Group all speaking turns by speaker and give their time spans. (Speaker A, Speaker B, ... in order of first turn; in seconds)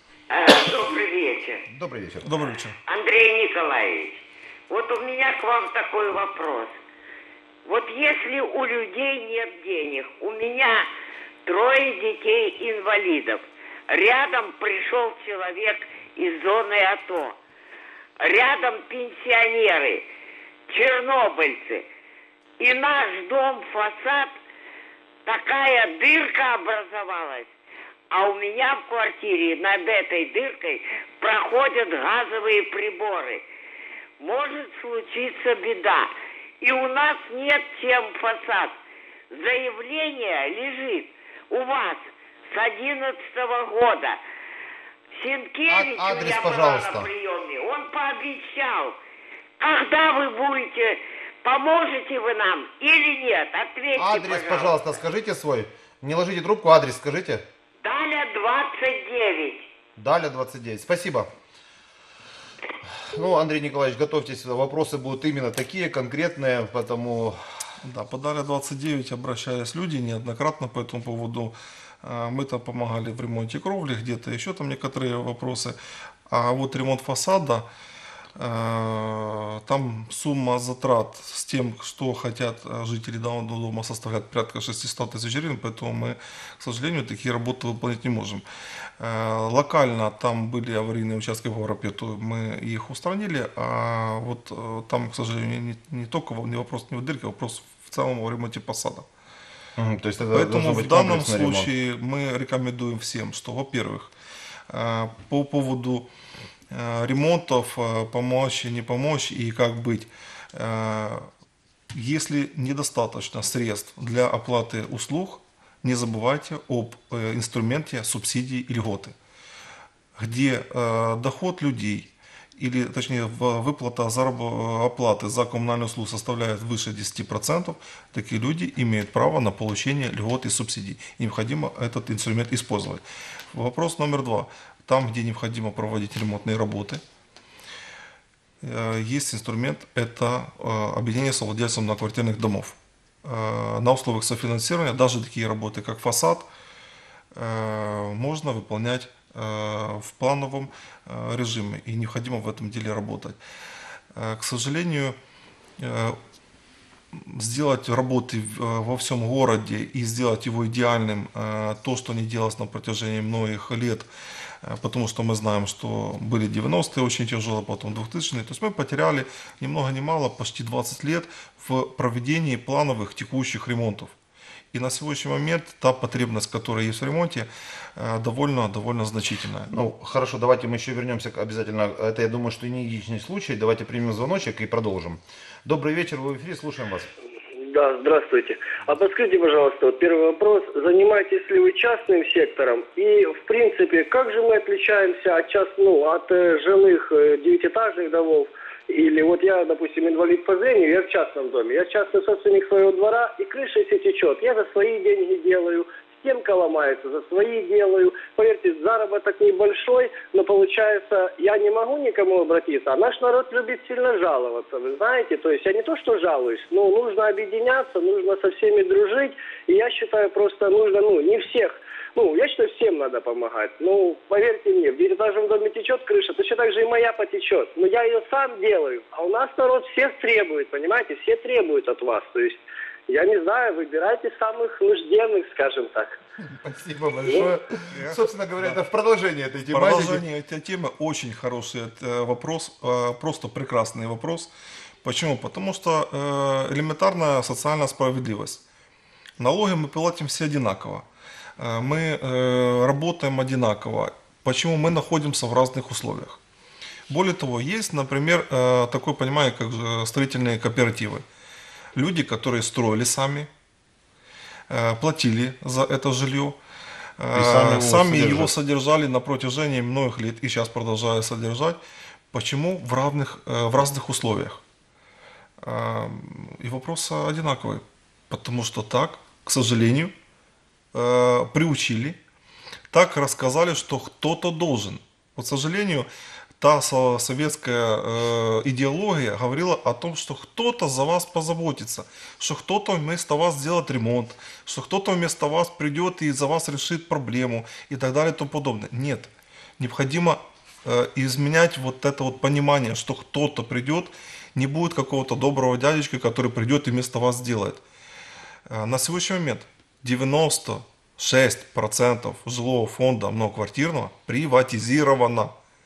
Speaker A: 0.3-1.6, 2.9-6.8, 7.7-10.9, 11.4-17.4, 18.2-20.1, 20.7-21.9, 22.6-24.4, 25.3-27.5, 28.1-33.4, 34.2-38.8, 39.3-44.2, 45.2-49.0, 49.6-54.8, 57.8-59.7
Speaker B: 1.7-2.3, 45.7-47.1, 54.0-57.4, 60.0-61.3, 63.0-67.4, 99.8-101.7, 179.7-187.1, 236.5-240.2, 267.4-268.5
Speaker C: 2.2-2.8, 67.8-75.8, 76.3-77.7, 78.4-88.4, 89.0-99.0, 100.3-104.1, 104.7-106.1, 106.7-111.3, 111.9-119.2, 120.2-137.0, 138.6-146.5, 147.3-153.4, 154.2-155.2, 155.8-156.2, 157.1-164.1, 164.6-174.1, 174.7-179.7, 237.9-238.8, 239.7-244.5, 245.0-248.6, 249.4-251.1, 251.6-256.4, 257.1-261.2, 261.9-263.5, 264.7-266.6, 267.2-271.8, 272.3-274.6, 275.6-280.1, 280.9-282.2, 282.9-286.1, 286.6-307.8, 308.7-315.5
Speaker D: 187.6-236.1